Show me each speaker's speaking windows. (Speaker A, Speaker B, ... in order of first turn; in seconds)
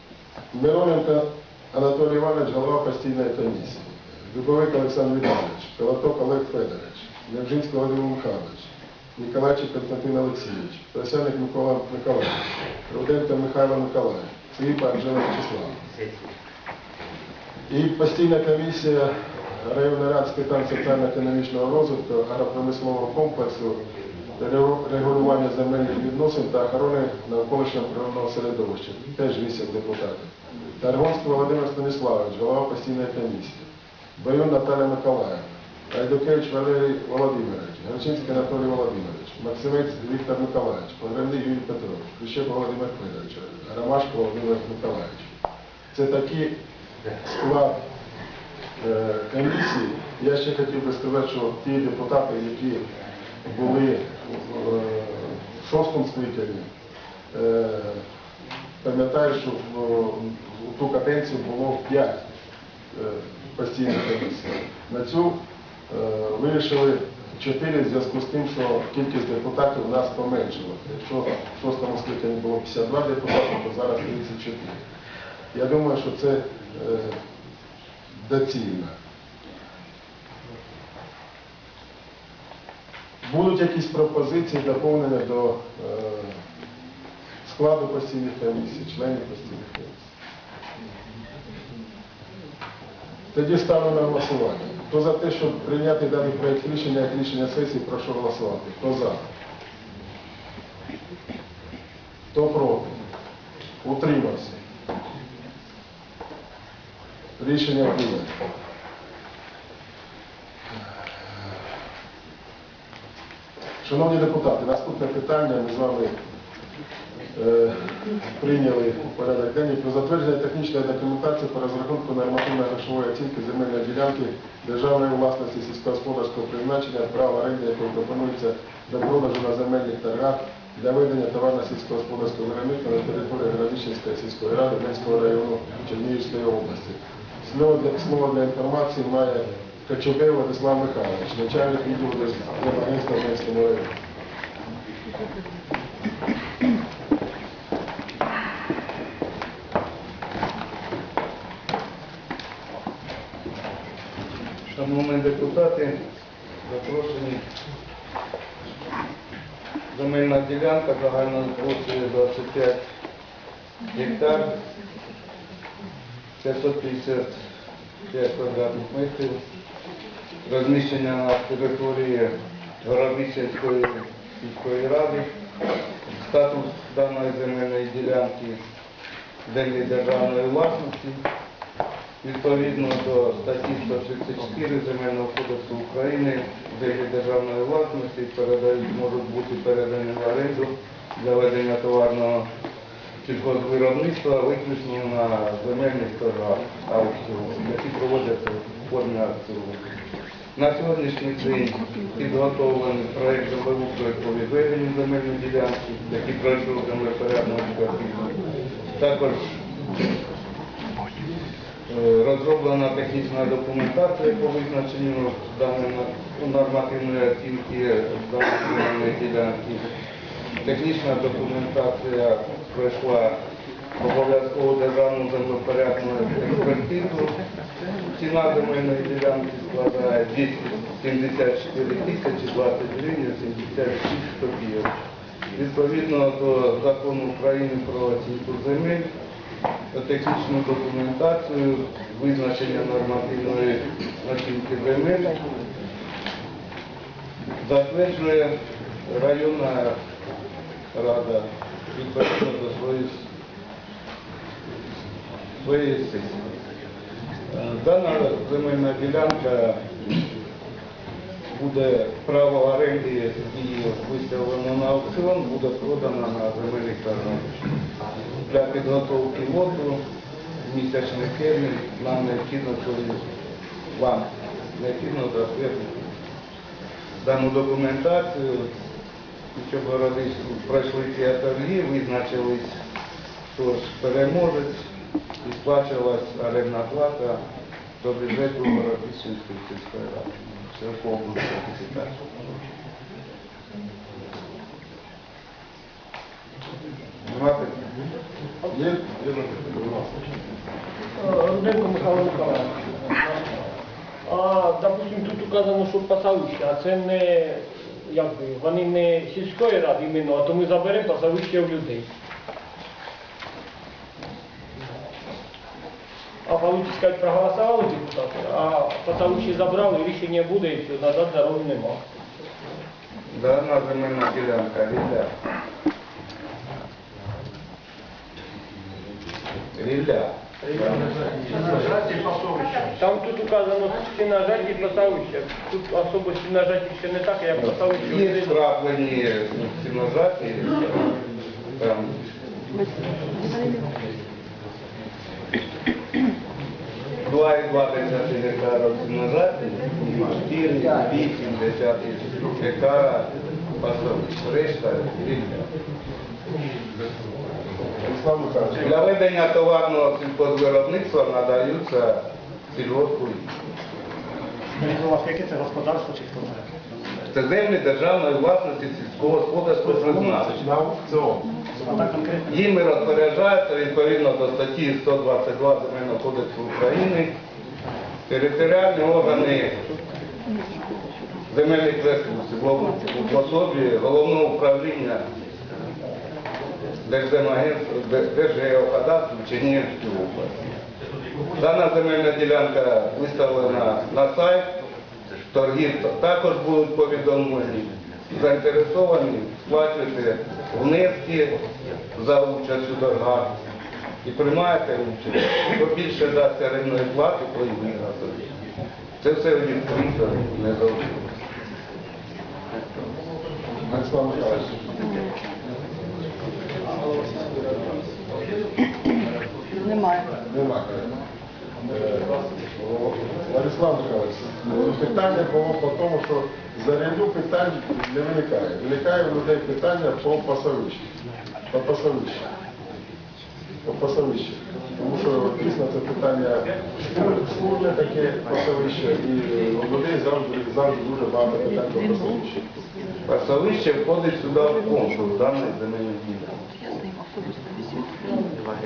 Speaker A: 0.5-15.8, 17.7-23.8, 24.4-45.3, 45.9-46.5, 47.3-47.8, 48.8-52.9, 53.5-56.7, 57.3-58.0, 58.8-62.2, 62.9-74.8, 75.5-77.2, 78.2-78.9, 83.2-86.4, 87.4-90.1, 93.3-99.2, 102.3-103.0, 103.8-104.6, 107.4-108.4, 113.8-116.2, 117.3-143.9, 298.7-300.3, 358.0-359.1, 369.9-371.5, 413.9-414.8, 420.5-421.1, 421.8-431.1, 431.7-432.5, 433.8-442.6
Speaker B: 154.7-156.0, 156.7-157.4, 159.9-162.8, 163.9-164.5, 166.4-167.3, 168.1-169.4, 170.4-175.3, 176.1-178.6, 179.5-181.2, 182.2-192.5, 193.2-199.8, 200.6-208.3, 209.0-209.5, 211.9-219.9, 220.7-223.4, 224.0-227.3, 228.2-234.9, 235.6-239.1, 239.9-245.3, 247.6-248.6, 249.1-250.0, 250.9-253.2, 255.6-256.4, 257.5-260.2, 261.5-267.5, 268.5-270.0, 270.6-273.2, 273.9-276.1, 277.2-278.7, 279.6-282.8, 283.5-284.9, 285.4-287.4, 288.0-292.2, 297.3-297.8, 323.3-325.3, 329.8-331.1, 338.0-341.0, 341.8-342.1, 347.2-355.6, 358.8-363.5, 367.3-370.6, 372.5-377.3, 378.3-379.8, 381.5-385.2, 387.1-390.6, 391.6-394.7, 395.5-401.6, 402.1-403.5, 404.2-408.4, 409.2-411.2, 443.3-446.5
Speaker C: 301.2-302.9, 304.3-312.1, 316.5-322.0, 332.8-338.6
Speaker D: 342.7-343.9, 419.8-420.4, 447.5-448.4
Speaker E: 364.8-366.7, 371.8-372.5